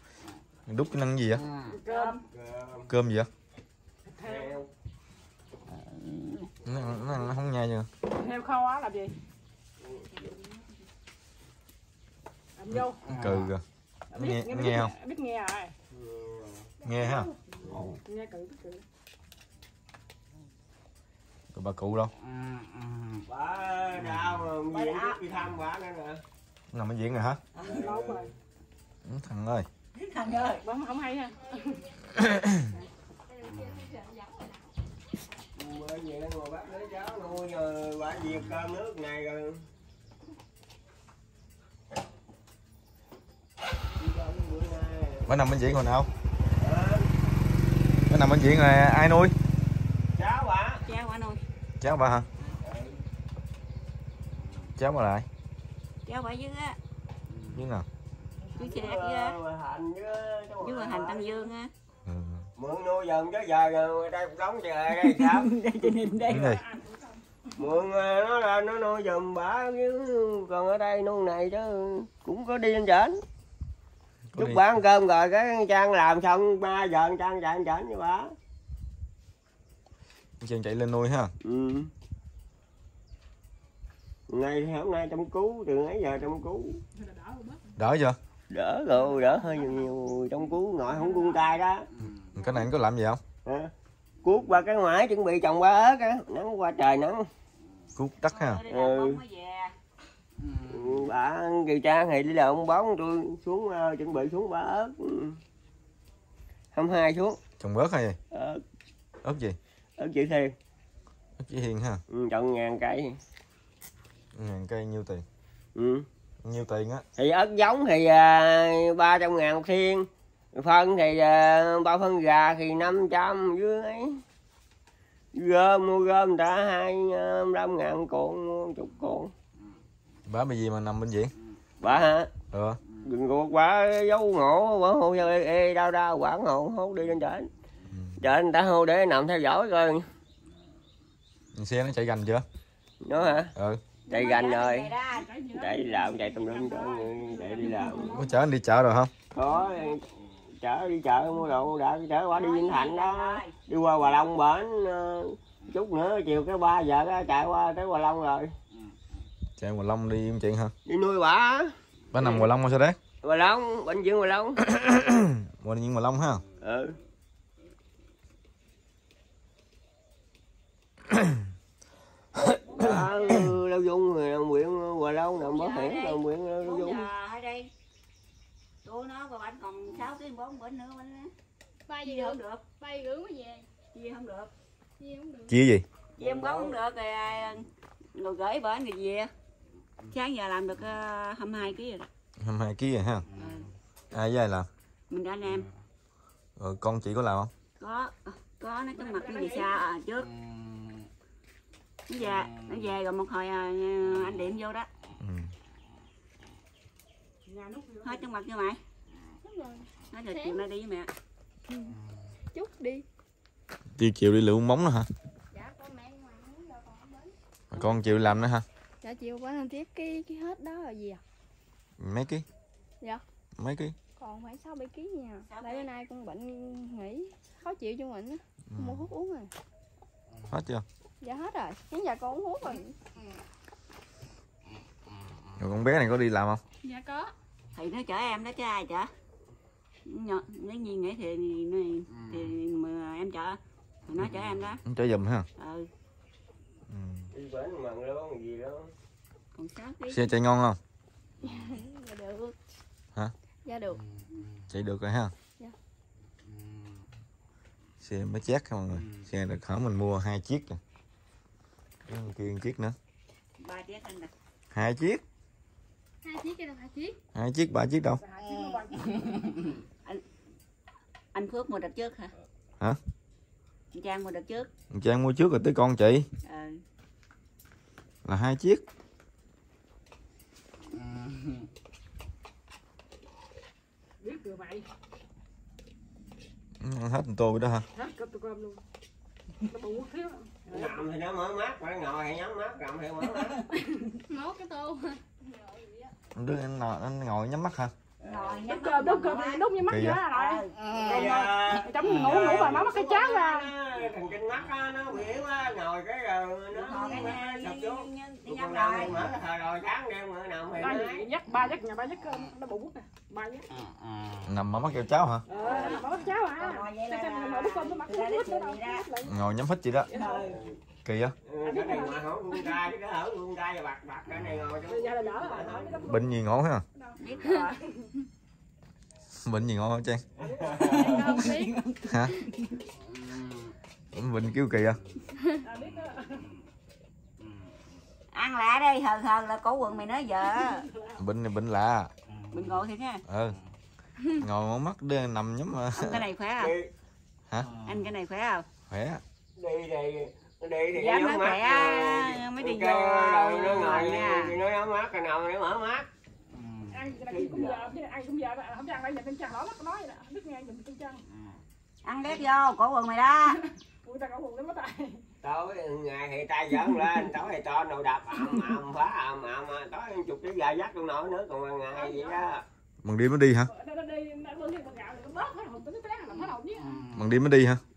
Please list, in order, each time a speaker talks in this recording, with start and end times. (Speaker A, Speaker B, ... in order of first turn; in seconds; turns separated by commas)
Speaker A: 0.7-1.4, Speaker B: 1.7-2.2, Speaker C: 1.9-2.1, Speaker D: 2.3-2.9, Speaker A: 2.9-3.3, Speaker B: 4.2-4.5, Speaker D: 4.2-4.7, Speaker C: 5.7-6.5, Speaker A: 6.6-7.9, Speaker B: 8.1-9.1, Speaker D: 9.8-10.1, Speaker C: 9.9-10.7, Speaker B: 12.6-13.0, Speaker A: 12.7-13.6, Speaker B: 14.1-15.7, Speaker A: 14.1-14.9, Speaker D: 15.9-16.7, Speaker A: 16.8-17.9, Speaker B: 16.9-17.3, Speaker D: 17.6-17.9, Speaker B: 18.0-18.8, Speaker A: 21.5-22.1, Speaker D: 23.3-26.2, Speaker C: 24.7-25.2, Speaker A: 26.7-27.4, Speaker C: 27.6-27.8, Speaker D: 27.6-28.3, Speaker B: 27.8-28.3, Speaker A: 29.0-29.7, Speaker C: 29.9-30.6, Speaker B: 30.6-31.8, Speaker A: 32.2-32.6, Speaker E: 33.5-34.5, Speaker D: 35.5-39.6, Speaker D: 44.0-45.3, Speaker A: 45.3-46.1, Speaker D: 46.5-47.1, Speaker A: 48.1-49.4, Speaker D: 50.1-50.8, Speaker C: 50.8-51.4, Speaker A: 51.8-52.3, Speaker D: 52.6-53.0, Speaker A: 54.8-55.3, Speaker C: 56.0-56.8, Speaker A: 57.5-57.9, Speaker C: 58.5-59.4, Speaker D: 58.5-61.5, Speaker C: 60.6-61.7, Speaker A: 62.0-62.5, Speaker D: 62.6-65.5, Speaker C: 64.9-66.6, Speaker A: 66.3-66.6, Speaker B: 66.5-67.1, Speaker D: 67.6-73.2, Speaker A: 74.3-74.6, Speaker D: 74.4-78.3, Speaker A: 80.4-81.3, Speaker D: 81.4-81.9, Speaker D: 84.3-86.8, Speaker B: 87.0-87.6, Speaker A: 87.8-88.2, Speaker D: 88.5-91.9, Speaker A: 92.2-93.2, Speaker D: 93.5-93.7, Speaker D: 94.2-97.3, Speaker A: 97.9-98.6, Speaker C: 98.3-99.7, Speaker D: 98.7-99.2, Speaker D: 100.6-105.4, Speaker D: 106.7-107.4, Speaker A: 107.6-108.2, Speaker D: 108.3-108.6, Speaker A: 109.2-109.6, Speaker D: 110.0-110.5, Speaker A: 111.4-112.0, Speaker D: 112.1-113.2, Speaker A: 114.3-115.2, Speaker D: 115.7-116.0, Speaker A: 116.4-117.0, Speaker D: 117.2-124.2, Speaker D: 125.3-129.3, Speaker A: 130.2-131.3, Speaker D: 131.8-132.3, Speaker A: 132.5-132.8, Speaker D: 133.0-137.5, Speaker A: 137.9-138.2, Speaker D: 138.2-140.0, Speaker A: 141.5-142.4, Speaker D: 143.0-143.5, Speaker A: 143.6-143.8, Speaker C: 144.1-145.3, Speaker D: 144.1-144.9, Speaker B: 145.1-148.3, Speaker D: 145.5-148.2, Speaker A: 148.1-149.1, Speaker D: 149.3-150.1, Speaker D: 150.6-158.5, Speaker C: 152.3-153.5, Speaker A: 159.6-160.7, Speaker D: 160.8-162.4, Speaker A: 162.1-163.0, Speaker D: 163.2-164.6, Speaker A: 164.7-166.4, Speaker D: 166.6-167.0, Speaker D: 172.7-177.1, Speaker C: 175.4-177.7, Speaker C: 178.8-181.3, Speaker E: 181.9-183.7, Speaker C: 182.0-182.6, Speaker C: 183.9-184.5, Speaker E: 185.0-185.5, Speaker A: 185.5-185.8, Speaker C: 186.2-189.3, Speaker D: 186.2-186.7, Speaker C: 190.1-192.1, Speaker A: 192.4-193.3, Speaker C: 193.3-193.7, Speaker A: 194.1-194.7, Speaker C: 195.1-195.7, Speaker A: 196.6-197.5, Speaker C: 197.8-200.3, Speaker B: 198.9-199.7, Speaker C: 202.1-204.9, Speaker A: 205.2-205.5, Speaker B: 207.5-208.2, Speaker C: 208.0-208.8, Speaker E: 209.4-210.6, Speaker C: 210.1-211.1, Speaker E: 212.5-213.0, Speaker A: 214.0-215.1, Speaker E: 215.5-217.3, Speaker A: 217.7-218.7, Speaker C: 217.7-218.2, Speaker E: 219.0-221.1, Speaker A: 222.0-222.4, Speaker A: 223.6-223.9, Speaker E: 224.2-229.4, Speaker C: 225.4-225.9, Speaker A: 228.7-229.1, Speaker A: 230.5-230.8, Speaker E: 231.2-232.9, Speaker A: 235.6-236.6, Speaker E: 236.8-237.3, Speaker C: 237.7-239.1, Speaker C: 240.1-244.8, Speaker A: 244.8-245.4, Speaker C: 245.6-245.9, Speaker A: 246.9-247.3, Speaker D: 247.3-248.9, Speaker C: 249.5-250.3, Speaker A: 250.1-250.8, Speaker E: 251.8-252.5, Speaker A: 254.7-255.3, Speaker A: 258.0-260.8, Speaker A: 262.1-263.0, Speaker C: 263.6-264.3, Speaker A: 264.7-265.2, Speaker E: 266.2-267.2, Speaker A: 267.3-268.2, Speaker B: 268.2-269.6, Speaker C: 271.3-272.3, Speaker C: 273.9-274.7, Speaker A: 274.9-276.3, Speaker C: 276.4-276.8, Speaker A: 278.2-278.8, Speaker B: 284.2-284.9, Speaker A: 286.8-287.9, Speaker B: 287.9-288.8, Speaker B: 289.6-291.0, Speaker D: 290.6-293.7, Speaker B: 293.8-294.1, Speaker E: 294.3-295.2, Speaker A: 296.3-297.9, Speaker C: 298.2-299.6, Speaker D: 298.2-298.6, Speaker B: 298.6-303.7, Speaker A: 299.8-300.2, Speaker C: 300.3-301.0, Speaker D: 300.9-311.3, Speaker C: 306.7-309.1, Speaker B: 310.8-313.7, Speaker A: 314.4-315.4, Speaker B: 315.5-319.3, Speaker C: 315.5-319.1, Speaker A: 319.2-320.1, Speaker B: 320.1-320.4, Speaker D: 320.1-320.8, Speaker A: 321.0-321.4, Speaker D: 321.4-326.1, Speaker B: 321.6-322.7, Speaker B: 324.9-326.4, Speaker A: 326.1-326.8, Speaker C: 327.2-327.8, Speaker D: 327.3-327.6, Speaker B: 327.7-328.1, Speaker A: 329.4-330.2, Speaker D: 330.4-331.2, Speaker B: 330.4-331.8, Speaker E: 331.2-331.8, Speaker A: 332.1-332.4, Speaker A: 334.1-335.0, Speaker B: 335.6-336.5, Speaker C: 338.3-340.9, Speaker B: 340.6-341.2, Speaker A: 341.2-342.1, Speaker C: 342.5-343.2, Speaker A: 343.3-343.6, Speaker A: 344.4-346.2, Speaker C: 345.9-346.7, Speaker D: 346.6-346.9, Speaker A: 347.5-347.8, Speaker C: 347.8-348.6, Speaker A: 348.9-349.2, Speaker D: 349.6-356.1, Speaker C: 350.9-354.6, Speaker B: 356.9-361.2, Speaker D: 357.2-357.9, Speaker C: 362.0-363.6, Speaker B: 364.0-365.2, Speaker D: 365.4-372.6, Speaker B: 371.9-372.3, Speaker A: 373.0-373.7, Speaker B: 373.7-377.1, Speaker A: 377.1-377.8